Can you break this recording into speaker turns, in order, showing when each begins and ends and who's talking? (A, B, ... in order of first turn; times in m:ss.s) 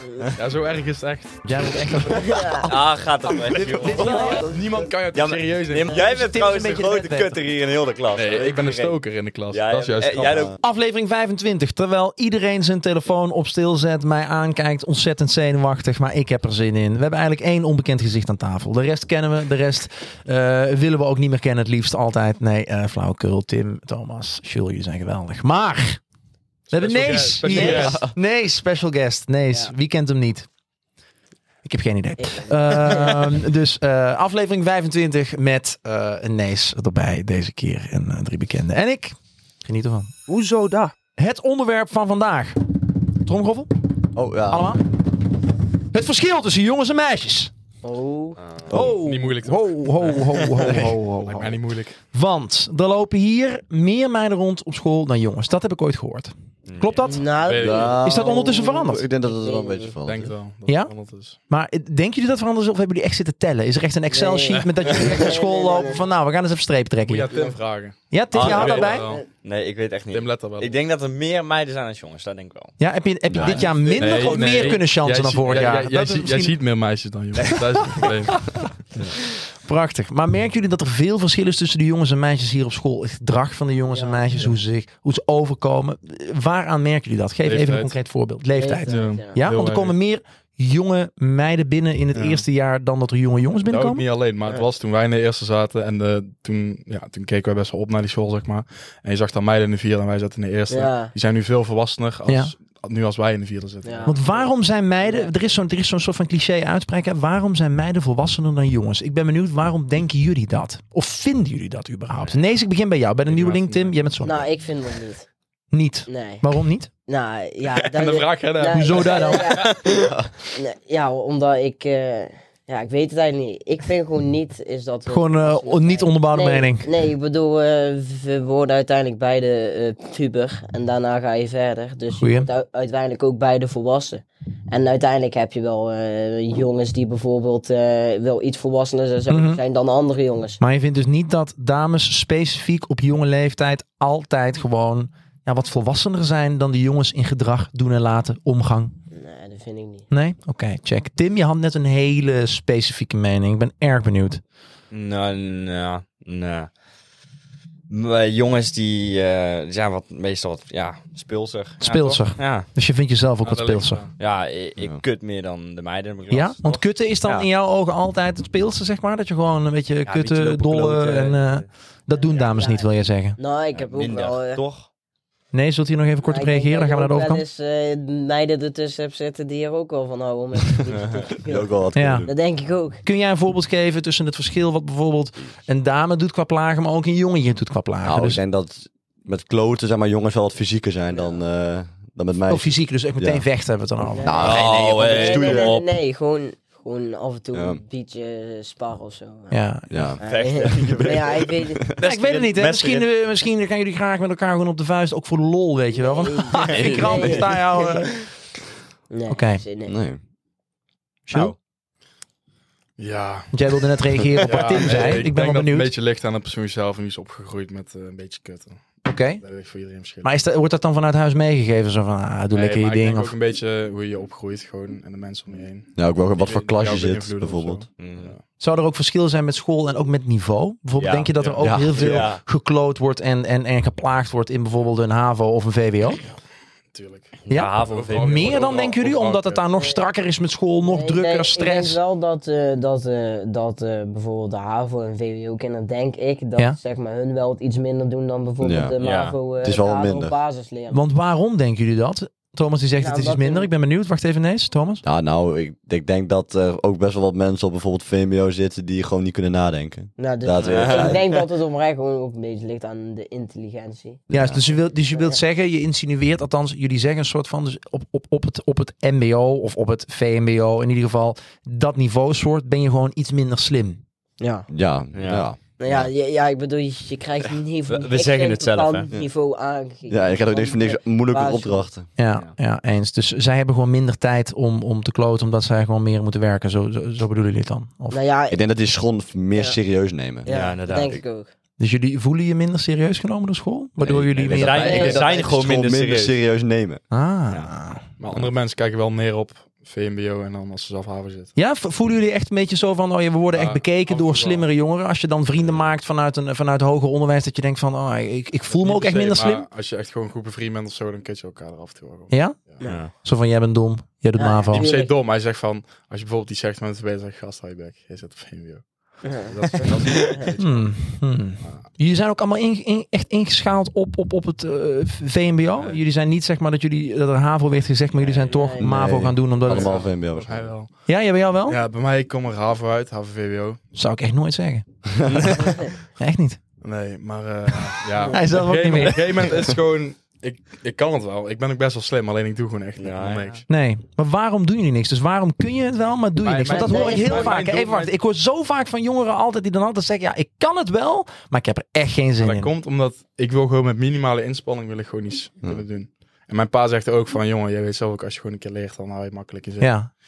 0:00.4-0:01.7 A
0:01.5-0:04.5 B
0:02.2-0:02.7 C
0:02.3-0:04.4 D
0:03.9-0:06.4 A
0:05.1-0:09.0 D
0:05.9-0:07.4 B
0:08.1-0:10.6 A
0:09.5-0:10.6 D
0:10.6-0:26.0 B
0:26.7-0:28.1 A
0:26.7-0:30.5 B
0:27.6-0:28.1 E
0:31.6-0:43.7 B
0:32.2-0:33.3 C
0:44.1-0:44.8 E
0:44.5-0:44.8 B
0:45.9-0:47.5 B
0:47.8-0:48.4 C
0:48.4-0:48.7 D
0:48.7-0:49.0 E
0:48.7-0:51.6 B
0:48.9-0:52.0 A
0:52.1-0:57.3 B
0:56.7-0:57.0 D
0:57.0-1:00.0 C
0:57.4-0:58.0 A
0:57.6-1:00.3 E
0:58.0-0:59.0 B
1:00.0-1:01.4 A
1:00.7-1:00.9 B
1:01.5-1:07.4 B
1:04.1-1:06.0 C
1:07.0-1:09.2 A
1:08.1-1:09.1 B
1:08.3-1:12.8 D
1:10.1-1:10.7 A
1:12.8-1:16.6 B
1:13.3-1:13.6 E
1:13.4-1:14.8 D
1:14.0-1:19.2 A
1:19.6-1:34.0 B
1:23.9-1:24.3 C
1:27.4-1:28.0 A
1:28.6-1:29.4 C
1:28.9-1:30.0 A
1:32.1-1:32.4 A
1:33.6-1:44.2 A
1:40.7-1:41.1 C
1:42.3-1:42.5 B
1:43.8-1:44.5 C
1:44.0-1:54.5 B
1:45.0-1:45.6 C
1:53.3-1:54.2 A
1:54.2-1:55.3 C
1:55.7-1:56.9 B
1:56.1-1:56.4 C
1:57.1-2:00.0 C
1:57.7-1:59.9 A
1:58.7-1:59.7 B
2:00.5-2:20.6 C
2:05.1-2:06.9 B
2:12.2-2:12.5 B
2:19.3-2:19.6 B
2:20.6-2:29.0 B
2:29.1-2:30.1 C
2:30.1-2:34.4 B
2:34.9-2:36.7 D
2:37.9-2:42.7 D
2:41.8-2:42.2 A
2:41.8-2:44.0 B
2:43.4-2:44.1 A
2:44.2-2:47.5 D
2:46.3-2:53.4 B
2:50.0-2:51.7 D
2:52.1-2:54.6 C
2:53.7-2:54.9 D
2:55.5-2:57.4 B
2:56.2-3:03.0 C
3:00.9-3:01.2 A
3:01.4-3:02.4 E
3:02.0-3:02.3 B
3:03.0-3:08.4 B
3:08.0-3:13.5 E
3:11.1-3:11.4 C
3:12.5-3:14.5 B
3:14.1-3:19.6 C
3:14.2-3:15.8 E
3:14.4-3:15.9 D
3:17.5-3:17.8 E
3:19.5-3:20.1 B
3:19.9-3:21.9 E
3:20.2-3:21.8 C
3:20.2-3:23.1 D
3:22.0-3:28.2 B
3:26.0-3:28.0 C
3:26.6-3:27.5 D
3:27.0-3:27.4 E
3:29.1-3:30.0 C
3:29.3-3:29.6 B
3:29.9-3:30.2 E
3:31.3-3:31.5 B
3:33.0-3:33.5 A
3:33.5-3:35.9 B
3:34.4-3:40.4 A
3:39.0-3:39.4 B
3:40.2-3:43.3 B
3:42.5-3:48.4 A
3:46.0-3:47.8 E
3:48.0-3:48.3 D
3:48.6-3:56.2 B
3:51.0-3:52.4 D
3:51.6-3:52.3 E
3:56.9-3:59.7 A
3:57.4-3:58.7 D
3:57.5-4:02.0 B
4:00.9-4:11.0 C
4:08.6-4:09.0 E
4:09.0-4:09.4 D
4:09.6-4:10.4 E
4:10.9-4:15.0 B
4:13.0-4:13.7 C
4:15.0-4:21.2 E
4:20.2-4:24.2 C
4:20.6-4:21.4 D
4:24.3-4:24.6 E
4:24.3-4:34.0 B
4:25.1-4:25.4 C
4:34.4-4:34.7 C
4:34.7-4:36.1 E
4:35.1-4:35.5 D
4:35.8-4:41.9 C
4:37.9-4:39.1 D
4:40.1-4:42.1 E
4:42.2-4:48.2 B
4:48.1-4:48.6 C
4:48.5-4:51.2 E
4:50.4-4:51.5 C
4:50.5-4:51.2 D
4:51.8-4:55.2 B
4:54.0-4:57.0 E
4:54.5-4:56.4 D
4:54.8-4:55.5 C
4:57.1-4:58.0 B
4:58.2-5:01.5 A
5:01.6-5:09.7 B
5:03.5-5:04.7 A
5:05.6-5:05.9 A
5:08.7-5:12.8 A
5:12.3-5:14.9 B
5:12.8-5:13.1 D
5:14.4-5:15.1 C
5:14.7-5:21.0 A
5:19.2-5:20.5 C
5:20.6-5:30.1 B
5:28.2-5:28.5 D
5:28.4-5:28.9 C
5:28.8-5:30.7 E
5:29.7-5:31.1 A
5:31.1-5:31.8 B
5:31.7-5:33.8 A
5:34.0-5:34.8 B
5:35.4-5:35.7 D
5:36.2-5:36.6 B
5:36.8-5:43.7 A
5:38.3-5:39.4 B
5:43.0-5:43.6 D
5:43.7-5:52.7 B
5:46.4-5:48.1 A
5:46.7-5:47.6 C
5:52.4-6:00.0 A
5:59.8-6:00.1 B